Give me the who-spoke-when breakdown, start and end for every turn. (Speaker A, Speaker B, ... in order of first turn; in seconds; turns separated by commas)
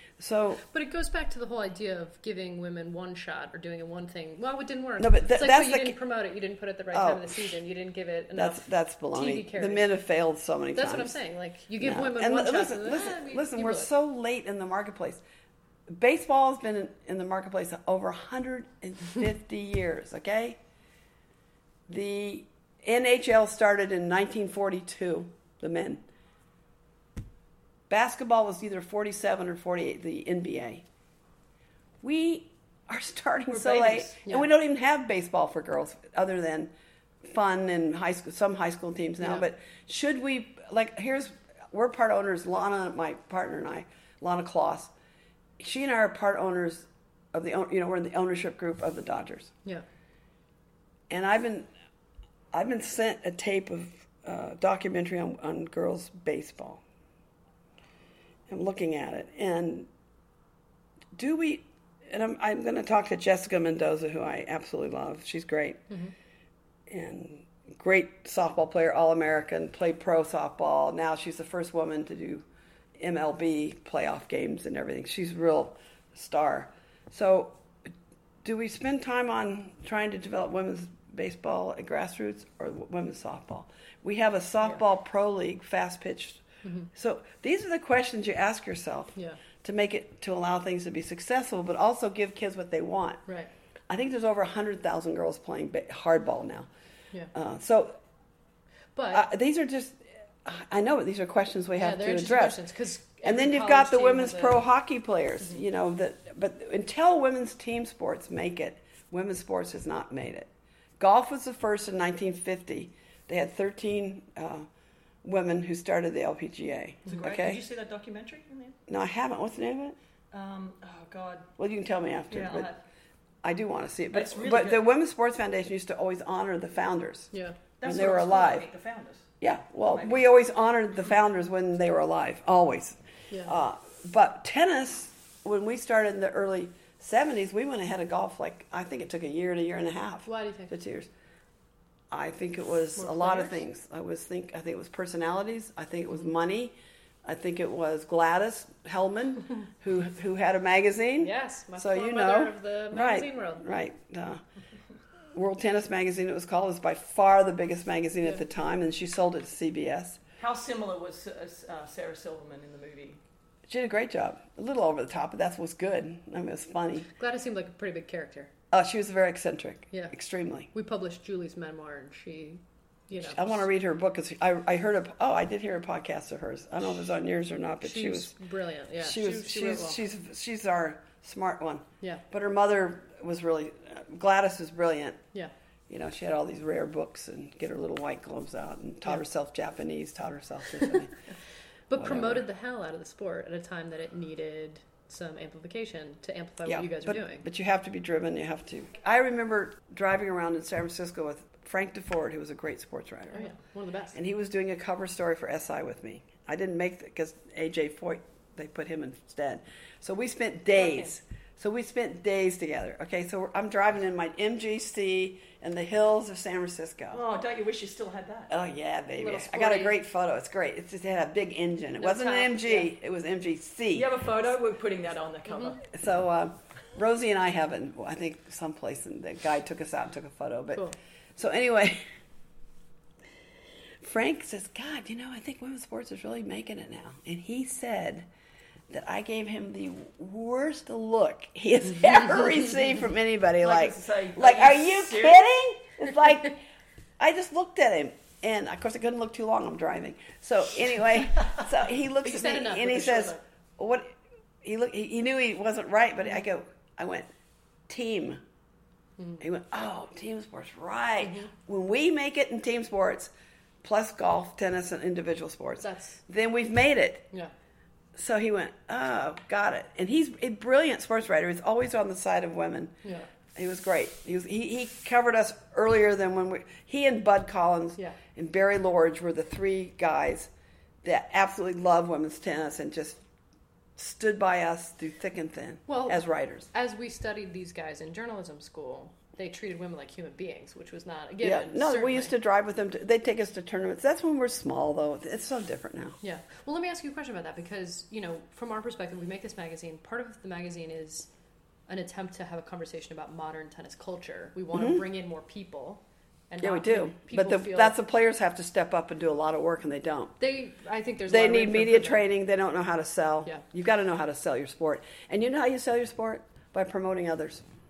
Speaker A: 0.2-0.6, Speaker B: 0.7-9.9, Speaker A: 5.0-6.0, Speaker A: 6.9-7.5, Speaker A: 8.3-11.2, Speaker B: 10.7-13.9, Speaker A: 11.8-15.2, Speaker A: 15.9-20.6, Speaker A: 21.9-26.0, Speaker A: 27.9-30.8, Speaker A: 32.0-36.7, Speaker C: 33.5-34.2, Speaker A: 37.2-44.9, Speaker A: 45.6-49.5, Speaker A: 51.1-51.7, Speaker A: 52.5-56.8, Speaker A: 58.5-59.9, Speaker A: 61.1-65.8, Speaker A: 66.9-72.5, Speaker A: 73.0-77.9, Speaker A: 78.4-86.4, Speaker B: 86.6-86.9, Speaker A: 86.9-93.2, Speaker A: 93.9-96.7, Speaker A: 97.3-98.0, Speaker B: 98.9-99.2, Speaker A: 99.1-102.6, Speaker B: 101.8-104.6, Speaker A: 103.2-114.7, Speaker A: 115.2-117.6, Speaker C: 117.1-118.8, Speaker A: 118.9-120.0, Speaker C: 120.3-121.5, Speaker A: 121.6-122.7, Speaker C: 122.3-122.8, Speaker A: 123.4-127.3, Speaker C: 124.1-124.9, Speaker B: 127.3-127.6, Speaker C: 127.8-129.3, Speaker A: 127.8-128.7, Speaker A: 129.4-141.1, Speaker C: 129.8-130.2, Speaker B: 140.2-140.7, Speaker A: 142.1-154.4, Speaker B: 142.9-143.6, Speaker B: 151.2-153.6, Speaker A: 155.3-160.2, Speaker C: 160.4-163.2, Speaker A: 163.7-167.1, Speaker B: 167.2-168.5, Speaker A: 168.7-170.7, Speaker B: 170.7-173.6, Speaker A: 173.1-178.3, Speaker B: 177.8-180.0, Speaker A: 179.0-185.2, Speaker A: 185.9-191.1, Speaker B: 191.9-197.4, Speaker A: 191.9-192.4, Speaker A: 196.6-203.5, Speaker B: 203.3-204.2, Speaker A: 204.1-217.2, Speaker C: 210.8-211.0, Speaker C: 217.1-218.5, Speaker A: 218.5-224.1, Speaker B: 219.2-220.0, Speaker B: 222.0-222.9, Speaker C: 223.9-225.8, Speaker B: 225.5-225.7, Speaker A: 225.9-232.0, Speaker A: 234.0-238.3, Speaker A: 238.9-246.6, Speaker C: 243.6-245.4, Speaker A: 247.2-257.3, Speaker B: 252.2-253.4, Speaker A: 257.9-258.4, Speaker A: 259.4-263.3, Speaker B: 261.2-261.5, Speaker A: 263.8-267.3, Speaker B: 265.8-266.2, Speaker A: 268.1-272.9, Speaker A: 273.5-280.5, Speaker A: 281.0-283.2, Speaker A: 283.9-286.7, Speaker B: 285.9-292.3, Speaker A: 291.4-296.1, Speaker B: 296.2-301.3, Speaker B: 301.9-307.9, Speaker A: 304.7-305.0, Speaker A: 306.6-310.3, Speaker B: 310.4-312.2, Speaker A: 311.3-317.6